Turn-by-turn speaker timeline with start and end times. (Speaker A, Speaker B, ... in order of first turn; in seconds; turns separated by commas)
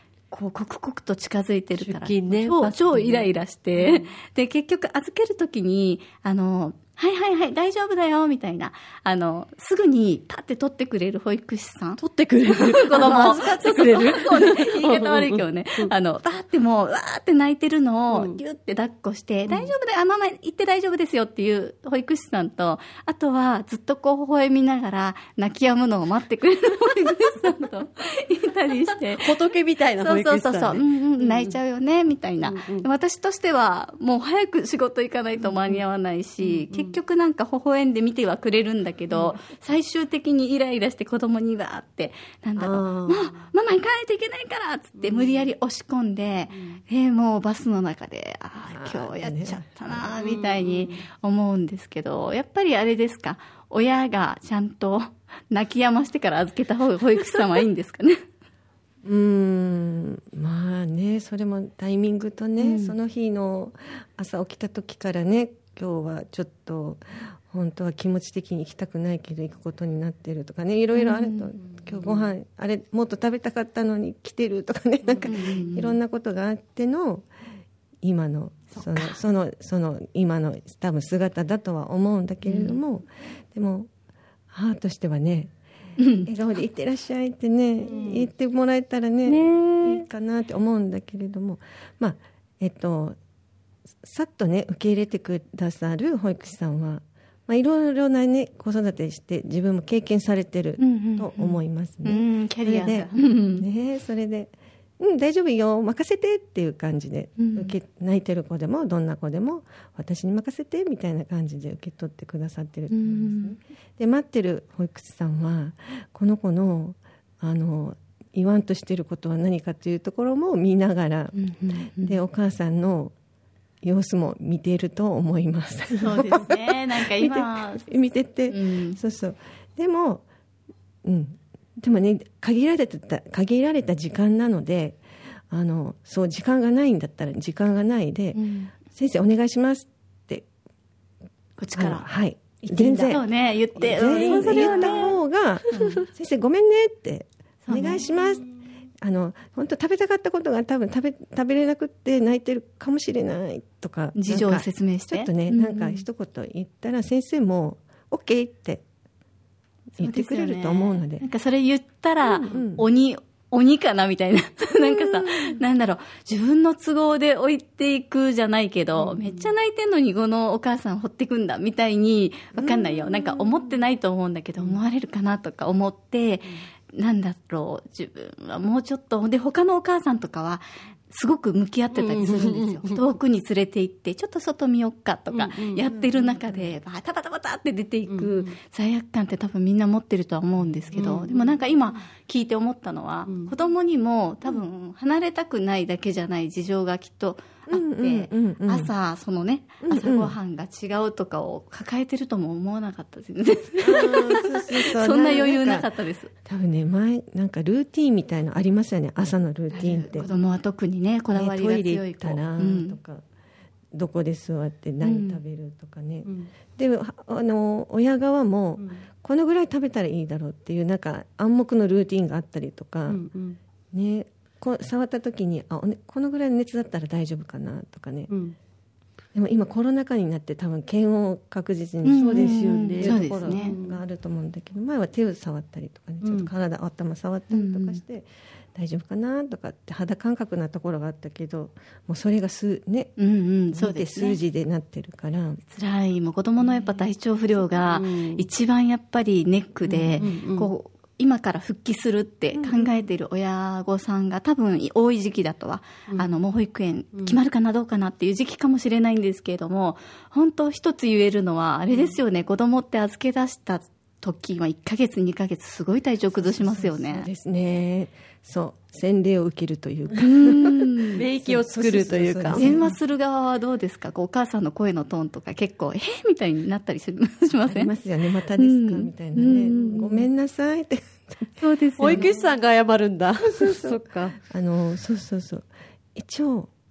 Speaker A: 0.3-12.0, Speaker B: 1.8-4.1, Speaker B: 12.0-15.9, Speaker A: 12.5-29.3, Speaker B: 18.1-18.4, Speaker B: 19.5-19.7, Speaker B: 29.2-31.6, Speaker A: 30.0-58.2, Speaker B: 32.4-32.9, Speaker B: 35.4-35.8, Speaker B: 36.4-36.9, Speaker B: 39.1-39.4, Speaker B: 42.6-43.4, Speaker B: 45.0-45.5, Speaker B: 46.5-46.8, Speaker C: 48.7-50.0, Speaker B: 50.1-51.0, Speaker C: 59.0-77.3, Speaker A: 62.6-62.9, Speaker A: 71.0-71.5, Speaker B: 71.7-72.3, Speaker B: 75.0-75.3, Speaker A: 75.2-75.9, Speaker C: 78.0-83.9, Speaker A: 78.7-79.2, Speaker A: 82.4-82.8, Speaker C: 84.5-85.5, Speaker A: 86.0-86.3, Speaker C: 86.2-93.2, Speaker B: 87.8-88.3, Speaker A: 89.2-90.0, Speaker C: 94.0-123.1, Speaker A: 100.8-103.7, Speaker A: 107.4-107.7, Speaker A: 112.9-113.6, Speaker A: 121.3-122.2, Speaker C: 123.8-130.2, Speaker A: 126.0-127.8, Speaker A: 128.5-129.0, Speaker C: 131.0-140.5, Speaker A: 138.3-138.7, Speaker A: 141.6-142.1, Speaker C: 141.7-143.2, Speaker A: 142.6-145.2, Speaker B: 143.8-145.2, Speaker C: 143.8-148.4, Speaker A: 145.7-146.1, Speaker A: 147.6-148.0, Speaker C: 149.0-158.8, Speaker A: 154.2-156.0, Speaker C: 160.0-161.2, Speaker A: 160.0-206.3, Speaker C: 162.2-162.8, Speaker C: 164.8-165.6, Speaker B: 169.0-169.5, Speaker C: 172.6-173.4, Speaker B: 181.9-183.0, Speaker B: 185.3-185.8, Speaker C: 185.9-186.5, Speaker B: 188.1-188.5, Speaker B: 190.9-191.6, Speaker B: 193.3-193.5, Speaker C: 197.7-198.9, Speaker C: 199.8-200.3, Speaker C: 203.8-205.9, Speaker C: 206.4-210.3, Speaker A: 209.7-213.0, Speaker C: 211.3-213.2, Speaker C: 213.9-223.2, Speaker A: 215.0-215.4, Speaker B: 218.8-219.0, Speaker B: 223.1-223.6, Speaker C: 223.9-228.3, Speaker B: 228.3-228.5, Speaker C: 229.3-243.1, Speaker A: 232.0-233.7, Speaker B: 232.1-234.0, Speaker B: 236.2-236.5, Speaker A: 237.5-238.0, Speaker A: 243.2-244.4, Speaker C: 243.7-245.6, Speaker A: 245.7-267.3, Speaker B: 247.6-248.4, Speaker C: 249.9-250.3, Speaker B: 250.2-250.7, Speaker C: 266.4-272.9, Speaker A: 270.2-271.2, Speaker B: 271.1-272.8, Speaker A: 272.6-277.9, Speaker C: 277.6-281.5, Speaker A: 278.6-280.2, Speaker B: 279.6-280.0, Speaker A: 281.6-282.4, Speaker B: 282.0-284.4, Speaker C: 282.0-282.3, Speaker C: 283.5-286.7